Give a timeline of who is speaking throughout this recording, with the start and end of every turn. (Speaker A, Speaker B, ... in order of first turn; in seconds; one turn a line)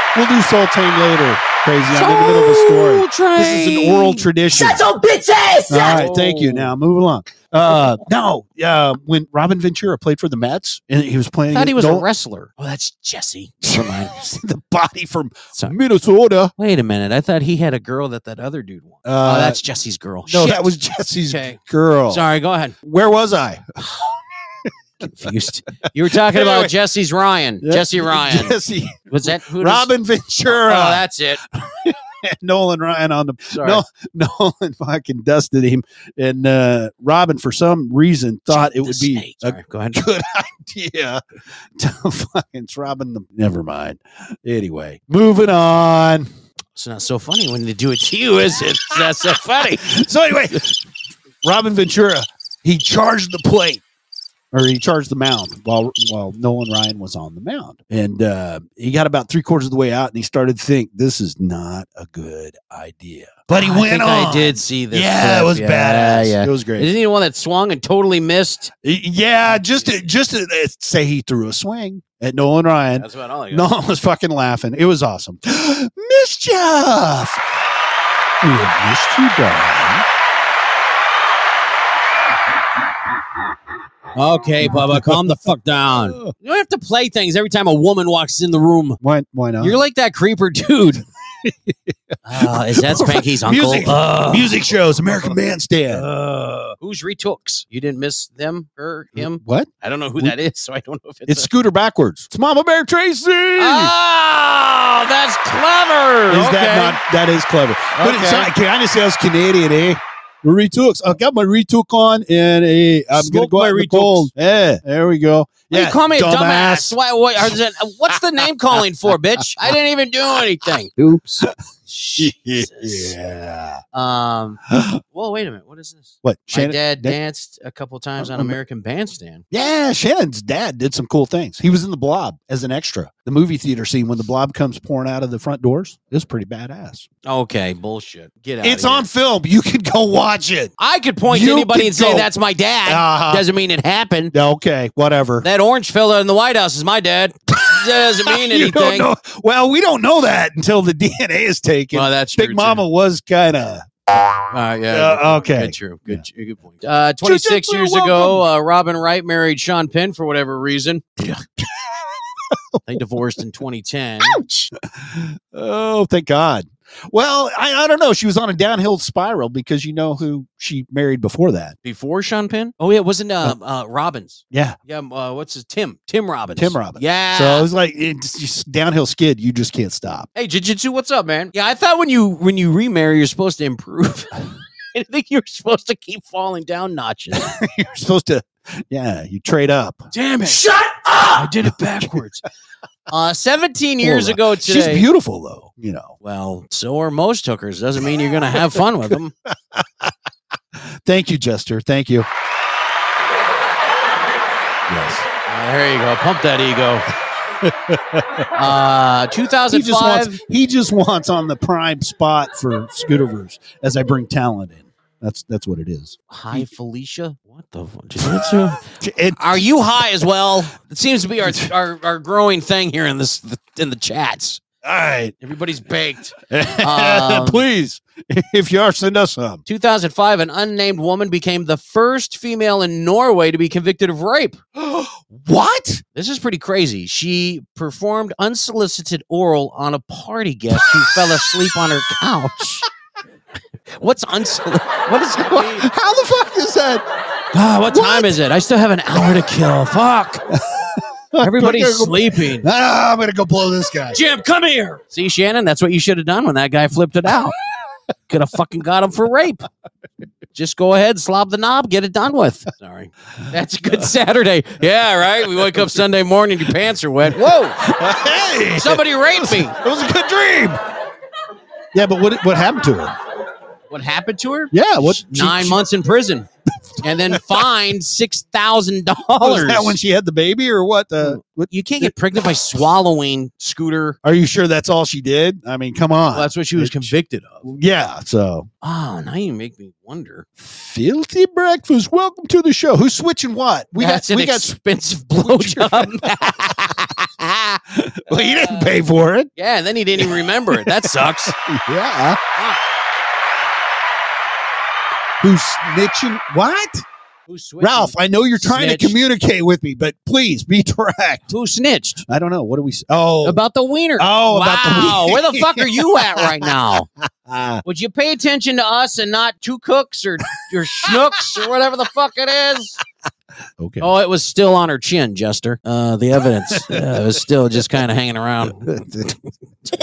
Speaker A: 0.1-4.8
Speaker B: 1.9-4.3
Speaker C: 4.5-6.1
Speaker A: 5.7-12.1
Speaker B: 5.8-6.7
Speaker B: 11.5-14.2
Speaker A: 13.6-16.5
Speaker B: 16.6-20.7
Speaker A: 19.1-19.6
Speaker A: 20.3-22.2
Speaker B: 21.3-22.7
Speaker A: 22.8-23.6
Speaker B: 25.0-28.6
Speaker A: 25.0-25.3
Speaker A: 26.1-26.7
Speaker A: 27.6-41.2
Speaker B: 29.1-29.9
Speaker B: 30.5-31.4
Speaker B: 33.5-33.8
Speaker B: 38.5-40.0
Speaker A: 41.8-46.3
Speaker B: 46.8-49.9
Speaker A: 49.8-50.8
Speaker A: 51.4-53.8
Speaker A: 54.5-66.9
Speaker B: 63.5-68.7
Speaker A: 68.8-77.4
Speaker B: 69.5-70.0
Speaker B: 73.0-73.7
Speaker A: 78.4-80.1
Speaker B: 84.2-89.0
Speaker A: 84.6-85.5
Speaker A: 86.0-86.3
Speaker A: 89.0-89.8
Speaker B: 89.6-91.0
Speaker A: 91.4-96.1
Speaker B: 92.2-94.7
Speaker B: 95.9-101.5
Speaker A: 99.2-99.7
Speaker A: 101.3-103.9
Speaker B: 103.6-107.0
Speaker A: 106.3-117.5
Speaker B: 107.9-108.5
Speaker B: 113.1-114.3
Speaker B: 115.7-123.1
Speaker A: 118.7-119.4
Speaker A: 122.2-123.8
Speaker B: 123.9-124.6
Speaker A: 124.7-125.0
Speaker B: 125.1-129.4
Speaker A: 126.2-127.2
Speaker A: 128.2-128.6
Speaker A: 129.5-137.1
Speaker B: 137.2-139.1
Speaker A: 138.6-140.7
Speaker B: 140.8-144.3
Speaker A: 141.3-142.3
Speaker A: 142.8-143.5
Speaker A: 144.3-145.5
Speaker B: 145.4-149.1
Speaker A: 148.2-153.9
Speaker B: 151.9-152.8
Speaker B: 154.5-161.1
Speaker A: 154.9-156.2
Speaker A: 157.2-158.4
Speaker A: 161.2-161.7
Speaker A: 162.5-162.8
Speaker B: 162.9-164.4
Speaker A: 164.3-171.8
Speaker B: 171.8-177.7
Speaker A: 174.5-174.8
Speaker A: 176.6-180.3
Speaker B: 180.3-184.3
Speaker B: 184.9-187.5
Speaker A: 187.3-190.1
Speaker B: 190.1-190.6
Speaker C: 190.4-191.5
Speaker B: 191.3-192.4
Speaker B: 193.1-195.1
Speaker A: 194.0-196.2
Speaker B: 196.2-199.3
Speaker A: 198.7-200.1
Speaker A: 200.8-202.3
Speaker A: 204.9-205.3
Speaker B: 205.5-207.1
Speaker A: 207.6-208.4
Speaker B: 208.5-210.4
Speaker A: 209.7-216.7
Speaker B: 216.3-218.8
Speaker A: 219.0-219.6
Speaker B: 219.4-224.6
Speaker A: 224.8-225.3
Speaker B: 225.4-227.6
Speaker A: 226.4-229.6
Speaker B: 229.7-234.6
Speaker A: 234.8-236.0
Speaker B: 236.2-242.9
Speaker B: 243.9-245.9
Speaker A: 245.5-247.0
Speaker B: 247.5-250.5
Speaker A: 247.9-248.3
Speaker A: 250.6-254.2
Speaker B: 251.4-252.7
Speaker B: 254.1-257.5
Speaker B: 258.3-259.6
Speaker B: 260.5-267.8
Speaker A: 267.8-270.8
Speaker B: 268.8-269.8
Speaker A: 271.9-273.2
Speaker B: 273.9-276.5
Speaker A: 274.7-275.9
Speaker B: 277.0-280.0
Speaker A: 277.3-277.7
Speaker A: 279.4-282.1
Speaker B: 281.2-284.2
Speaker A: 284.2-287.1
Speaker B: 286.3-287.7
Speaker A: 287.6-288.7
Speaker B: 288.8-290.5
Speaker A: 290.6-294.7
Speaker B: 294.0-297.8
Speaker A: 295.4-296.7
Speaker A: 297.9-299.5
Speaker B: 298.3-298.9
Speaker B: 299.6-301.6
Speaker A: 300.2-302.4
Speaker B: 302.6-302.8
Speaker A: 305.4-307.1
Speaker B: 307.5-309.2
Speaker A: 307.8-311.5
Speaker B: 311.5-312.2
Speaker A: 312.3-313.6
Speaker B: 313.4-317.1
Speaker A: 314.2-316.7
Speaker A: 317.4-317.8
Speaker B: 317.9-323.0
Speaker A: 323.8-324.1
Speaker B: 324.0-328.9
Speaker A: 326.7-327.3
Speaker A: 328.6-329.4